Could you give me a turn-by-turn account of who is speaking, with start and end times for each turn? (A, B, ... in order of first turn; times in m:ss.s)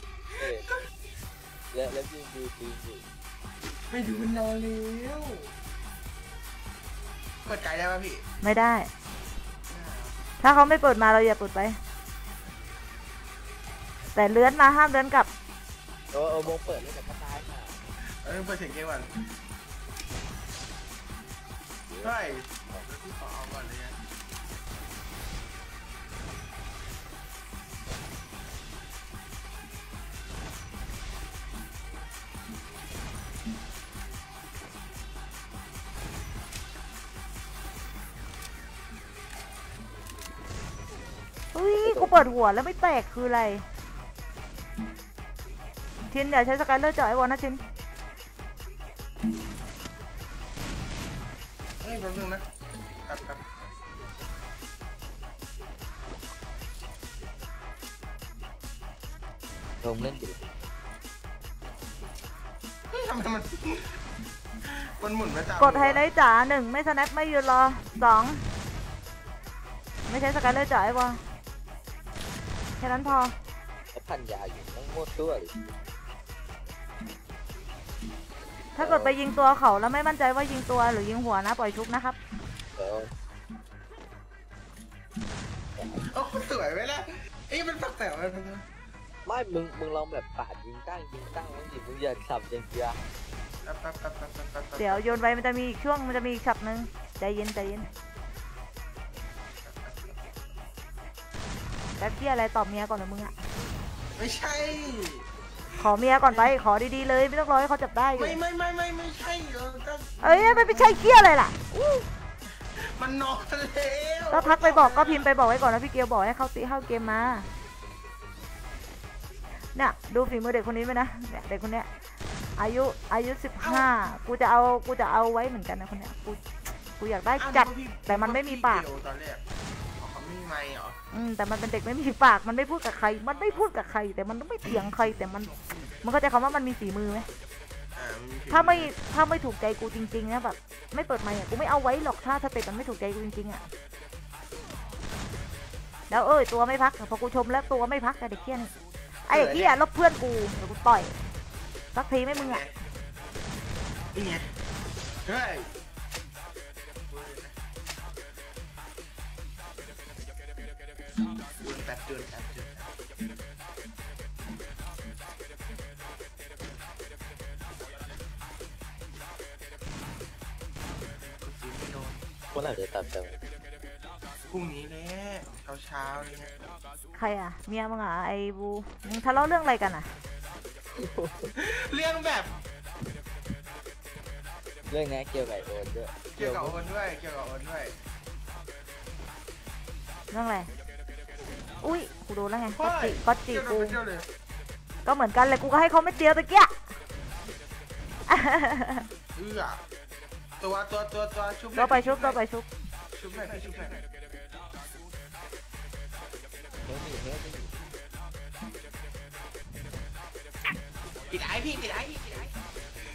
0:00.4-0:00.7 A
0:01.7-0:03.1 A
0:03.9-0:05.5 B
0:07.4-0:08.2 B
0:08.4-0:08.9 C
0:09.7-0:10.2 B
0:10.4-0:11.8 C
0:14.1-0:15.3 C
0:16.1-0:17.8 A
0:18.0-0:19.1 B
0:21.9-0:22.1 A
0:22.0-0:24.0 B
0:41.5-0:43.7 C
0:41.8-0:42.2 A
0:46.1-0:47.6 C
0:51.8-0:52.4 B
0:53.1-0:53.5 B
0:59.8-1:00.5 A
1:02.9-1:04.0 B
1:04.6-1:06.0 B
1:05.6-1:08.5 C
1:10.1-1:11.2 C
1:12.8-1:13.4 C
1:13.9-1:15.7 A
1:18.8-1:22.2 C
1:18.8-1:19.2 A
1:22.8-1:23.1 A
1:25.8-1:26.0 A
1:26.0-1:28.6 B
1:29.2-1:33.0 A
1:33.6-1:35.2 B
1:34.8-1:37.9 C
1:39.6-1:40.2 B
1:42.0-1:43.4 C
1:44.2-1:45.8 B
1:45.8-1:48.4 C
1:48.2-1:51.0 B
1:50.2-1:51.6 C
1:52.6-1:55.3 B
1:54.3-1:57.5 C
1:59.7-2:01.9 C
2:02.6-2:06.4 C
2:03.6-2:03.9 B
2:07.0-2:08.8 C
2:07.4-2:09.4 B
2:10.0-2:11.0 B
2:11.1-2:17.3 C
2:18.0-2:18.9 B
2:18.5-2:23.7 C
2:26.1-2:28.7 C
2:29.3-2:31.2 C
2:29.3-2:29.8 B
2:31.9-2:32.6 C
2:32.3-2:32.7 B
2:34.1-2:34.5 B
2:35.2-2:35.7 B
2:37.1-2:37.6 B
2:41.6-2:42.9 B
2:51.3-2:52.2 B
2:52.5-2:53.4 A
2:54.5-2:56.5 B
2:57.1-3:00.1 C
3:00.9-3:01.5 A
3:01.6-3:02.5 B
3:04.9-3:06.8 A
3:06.3-3:08.0 B
3:10.3-3:10.7 C
3:11.8-3:14.0 C
3:12.8-3:14.3 B
3:15.1-3:16.8 C
3:18.3-3:19.1 C
3:19.4-3:19.8 B
3:20.6-3:22.4 B
3:21.8-3:22.7 C
3:23.1-3:24.0 B
3:26.8-3:27.9 A
3:31.3-3:32.5 B